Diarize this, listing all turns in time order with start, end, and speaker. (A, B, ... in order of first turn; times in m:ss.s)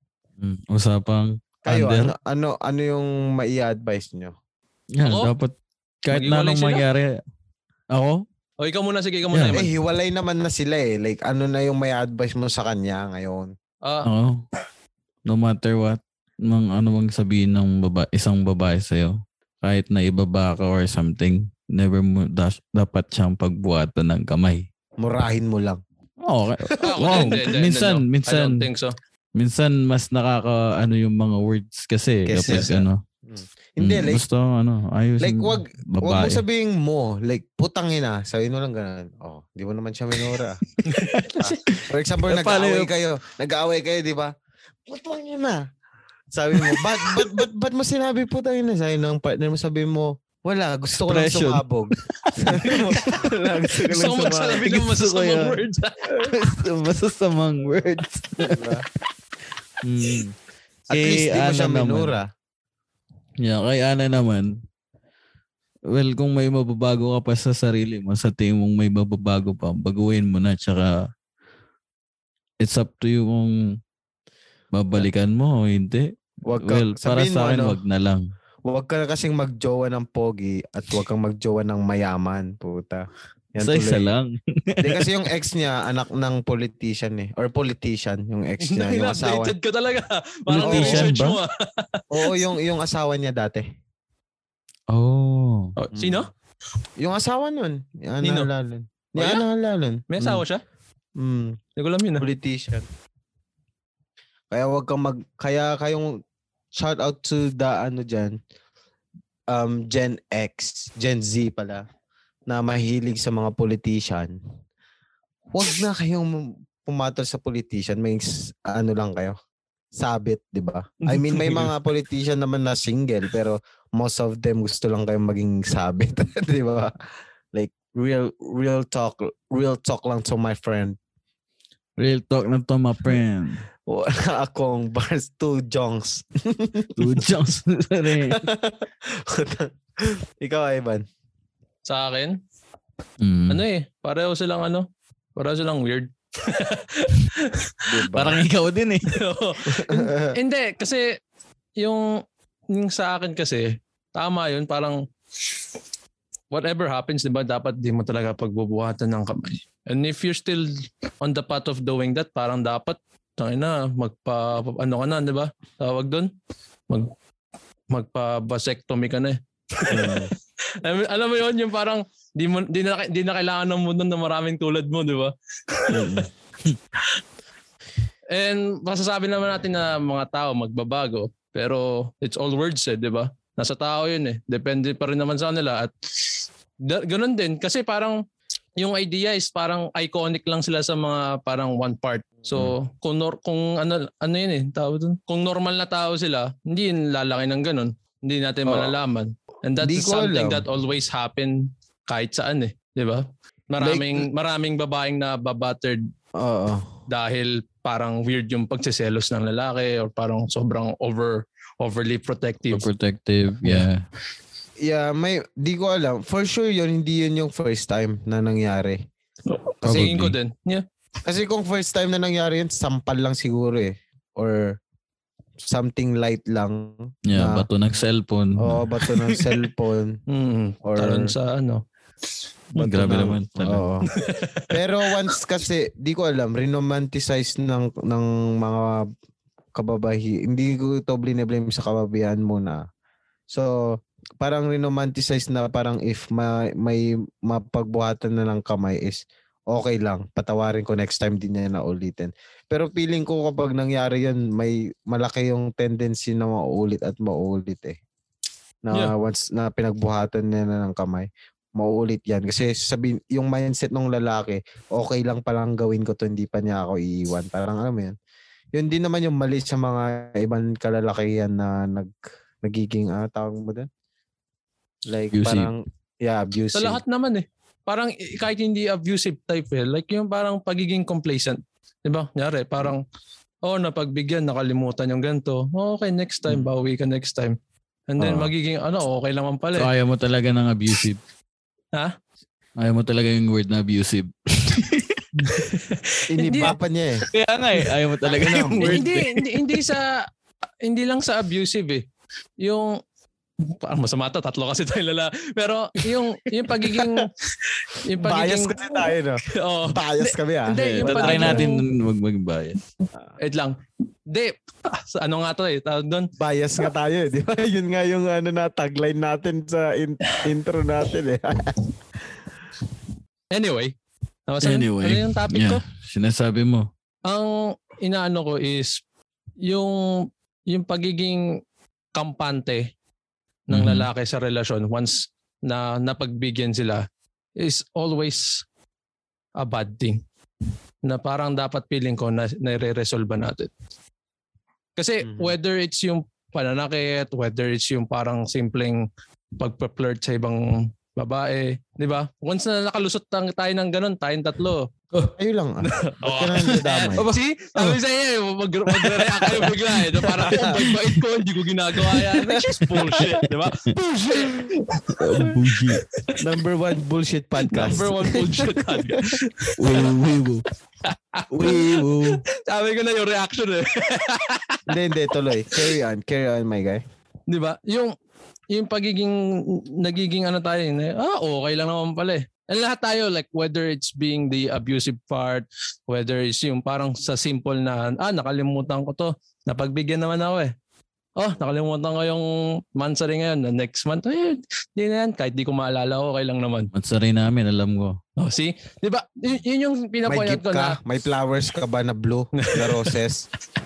0:00.4-0:02.1 A
0:01.6-0:04.4 B
0:04.9-0:07.2 A
0:05.0-0:05.3 C
0:06.1-0:06.8 C
0:07.9-0:08.2 A
0:08.6-0:09.7 C
0:09.3-0:09.6 A
0:09.5-0:13.5 B
0:14.0-0:14.4 A
0:15.2-0:24.6 A
0:25.0-0:25.8 B
0:26.2-0:28.7 A
0:26.8-0:28.9 C
0:27.0-0:27.5 B
0:29.3-0:33.0 A
0:32.2-0:34.2 B
0:33.8-0:36.4 A
0:35.2-0:40.6 B
0:40.8-0:42.9 A
0:40.8-0:41.6 C
0:41.4-0:44.3 B
0:44.9-0:45.6 B
0:46.3-0:54.7 B
0:51.1-0:53.1 A
0:53.9-0:55.9 C
0:54.6-0:55.6 A
0:56.2-0:58.6 A
0:58.4-0:58.8 B
0:59.8-1:00.3 A
1:00.9-1:02.1 A
1:00.9-1:02.3 B
1:03.4-1:04.6 A
1:05.9-1:11.1 A
1:12.6-1:13.8 A
1:14.7-1:16.1 A
1:16.4-1:17.8 B
1:16.6-1:18.2 A
1:18.7-1:24.1 B
1:23.6-1:25.1 A
1:24.8-1:29.5 B
1:28.6-1:32.0 C
1:30.5-1:31.4 A
1:30.6-1:31.1 B
1:32.1-1:33.6 B
1:34.9-1:35.7 A
1:35.8-1:36.3 C
1:35.9-1:36.2 B
1:37.0-1:40.4 B
1:38.2-1:38.5 C
1:39.2-1:39.4 C
1:40.1-1:40.6 C
1:41.2-1:41.6 B
1:41.8-1:42.2 C
1:42.2-1:42.9 B
1:44.5-1:46.2 B
1:46.7-1:48.4 B
1:49.5-1:51.8 B
1:52.5-1:54.4 B
1:55.5-1:59.4 B
1:59.9-2:06.9 B
2:01.0-2:01.7 C
2:07.5-2:11.0 B
2:12.0-2:13.6 A
2:13.9-2:17.3 B
2:17.0-2:18.4 A
2:18.3-2:21.0 B
2:21.9-2:22.4 C
2:23.2-2:23.6 A
2:23.5-2:27.8 C
2:27.9-2:28.4 B
2:28.1-2:29.2 A
2:29.1-2:31.1 C
2:29.7-2:30.4 B
2:31.8-2:32.2 C
2:32.7-2:35.0 C
2:36.5-2:40.7 C
2:41.2-2:46.3 C
2:47.9-2:56.2 C
2:49.9-2:50.3 B
2:55.9-2:56.3 B
2:58.3-3:05.9 C
3:06.8-3:08.2 C
3:08.8-3:26.0 C
3:12.5-3:12.7 B
3:18.6-3:19.0 B
3:19.8-3:20.6 B
3:23.8-3:24.3 B
3:26.4-3:26.9 B
3:27.1-3:32.9 C
3:32.7-3:34.0 A
3:34.8-3:39.0 B
3:39.5-3:40.8 C
3:39.8-3:40.1 B
3:39.8-3:40.3 A
3:41.2-3:44.8 B
3:45.6-3:47.7 B
3:47.3-3:49.4 A
3:48.6-3:50.2 B
3:50.3-3:51.8 C
3:50.8-3:51.3 B
3:52.8-3:53.9 A
3:52.8-3:54.1 B
3:54.1-3:55.1 C
3:54.7-3:59.1 B
3:59.7-4:02.8 B
4:03.5-4:18.0 B
4:18.8-4:28.2 B
4:28.7-4:33.9 B
4:35.1-4:37.0 B
4:35.3-4:35.7 A
4:36.7-4:43.0 C
4:43.6-4:47.6 C
4:48.1-4:49.9 C
4:48.2-4:48.5 B
4:49.7-4:51.2 A
4:52.8-4:55.7 A
4:55.4-4:56.7 C
4:56.3-4:57.2 B
4:57.3-4:59.5 A
4:58.2-4:59.1 B
4:58.8-5:00.2 C
5:00.8-5:02.0 C
5:02.6-5:03.0 C
5:03.7-5:07.3 C
5:06.8-5:07.2 B
5:07.9-5:11.8 C
5:08.2-5:11.7 B
5:10.8-5:12.9 A
5:13.4-5:13.8 C
5:14.3-5:16.3 C
5:16.4-5:21.8 B
5:23.5-5:23.9 C
5:24.5-5:25.8 C
5:24.6-5:26.9 A
5:27.2-5:29.0 C
5:29.6-5:31.6 C
5:32.1-5:32.9 C
5:33.7-5:37.0 C
5:33.7-5:34.1 A
5:37.6-5:38.6 C
5:39.6-5:40.2 C
5:41.0-5:43.7 C
5:45.0-5:49.1 C
5:45.2-5:45.5 B
5:49.6-5:54.9 C
5:55.4-5:57.2 B
5:55.8-6:05.5 C
5:57.2-5:58.0 A
5:58.9-6:01.0 A
6:00.3-6:00.8 B
6:03.1-6:03.4 B
6:05.2-6:06.0 A
6:06.4-6:09.4 B
6:07.6-6:10.1 C
6:09.8-6:10.6 A
6:11.0-6:14.8 C
6:11.5-6:12.4 A
6:14.9-6:17.0 B
6:17.5-6:18.1 C
6:18.7-6:30.7 C
6:31.4-6:36.9 C
6:36.9-6:38.2 A
6:38.4-6:41.0 C
6:40.2-6:43.4 B
6:42.6-6:43.1 C